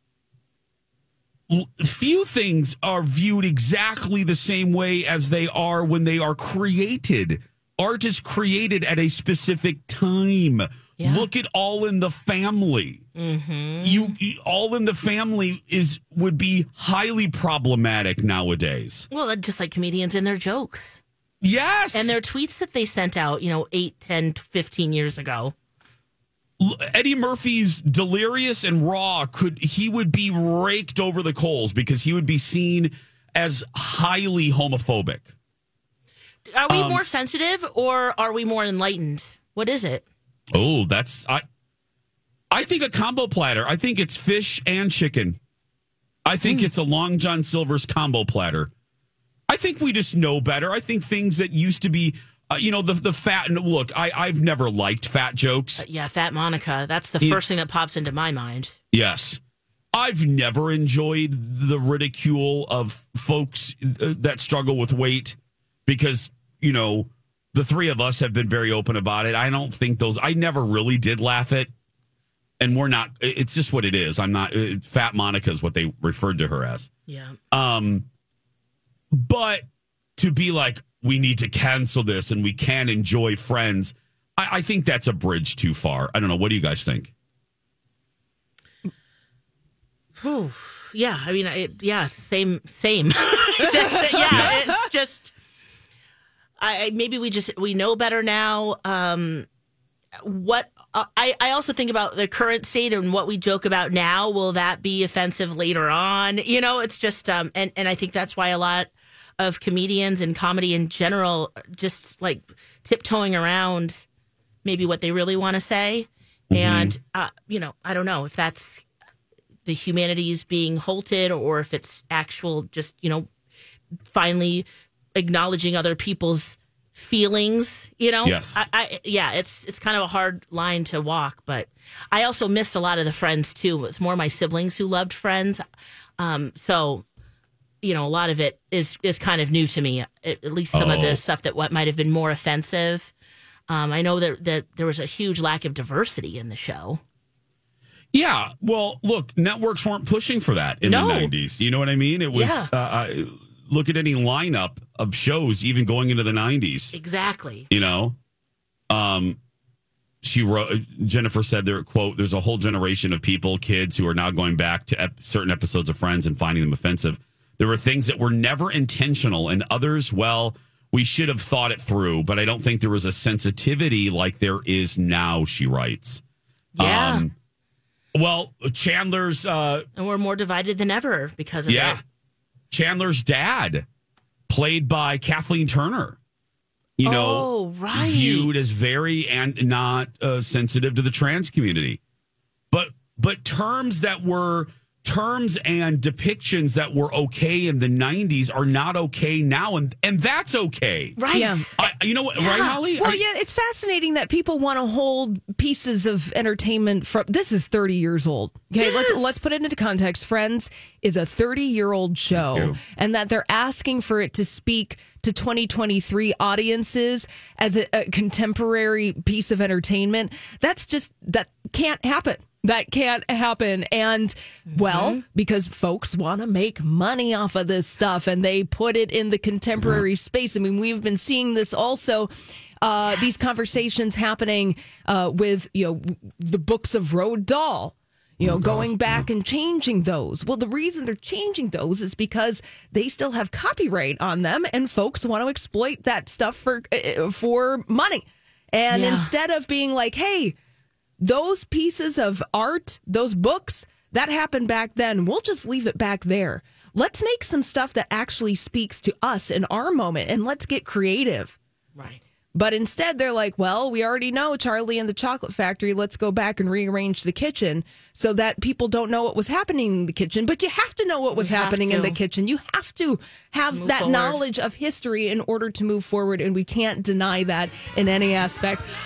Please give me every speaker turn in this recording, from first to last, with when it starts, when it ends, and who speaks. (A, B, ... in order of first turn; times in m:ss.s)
0:01.5-0:13.0 A
0:11.0-0:11.3 B
0:13.1-0:14.1 B
0:13.8-0:19.1 A
0:19.1-0:21.0 B
0:21.4-0:22.2 A
0:21.9-0:25.5 B
0:26.6-0:35.3 A
0:36.5-0:40.0 B
0:36.7-0:37.0 A
0:40.5-0:41.4 A
0:42.5-0:45.4 A
0:46.2-0:48.7 A
0:46.4-0:46.7 B
0:49.5-0:55.8 A
0:55.8-0:58.8 B
0:58.9-0:59.4 A
0:59.9-1:11.7 A
1:12.6-1:16.9 A
1:17.1-1:17.4 B
1:17.5-1:18.0 A
1:19.1-1:19.6 A
1:20.2-1:27.1 A
1:30.2-1:35.3 B
1:34.3-1:34.6 A
1:36.6-1:39.5 B
1:40.2-1:54.0 B
1:54.6-1:58.8 B
1:56.5-1:56.9 A
1:59.6-2:03.3 B
2:04.1-2:15.6 B
2:08.2-2:08.6 A
2:16.2-2:17.0 B
2:17.8-2:23.1 B
2:20.7-2:21.2 A
2:23.7-2:27.0 B
2:28.1-2:36.9 A
2:30.8-2:31.3 B
2:32.3-2:32.7 B
2:36.9-2:37.7 B
2:37.7-2:38.2 A
2:38.9-2:39.4 A
2:40.2-2:56.2 A
2:56.8-2:57.3 B
2:56.8-2:57.3 A
2:58.1-2:59.9 A
3:00.0-3:02.0 B
3:01.7-3:02.0 A
3:02.7-3:03.8 A
3:04.5-3:06.2 A
3:07.0-3:12.0 A
3:07.0-3:08.6 B
3:12.7-3:21.2 A
3:21.2-3:21.7 B
3:21.3-3:21.7 C
3:21.8-3:23.2 A
3:22.4-3:22.8 B
3:22.9-4:10.6 C
3:28.8-3:29.4 B
3:32.3-3:32.8 A
3:44.7-3:45.2 B
3:58.4-3:59.2 A
4:08.9-4:09.3 B
4:11.2-4:21.6 C
4:22.0-4:22.2 B
4:22.5-4:38.9 C
4:31.4-4:32.2 B
4:33.7-4:34.4 B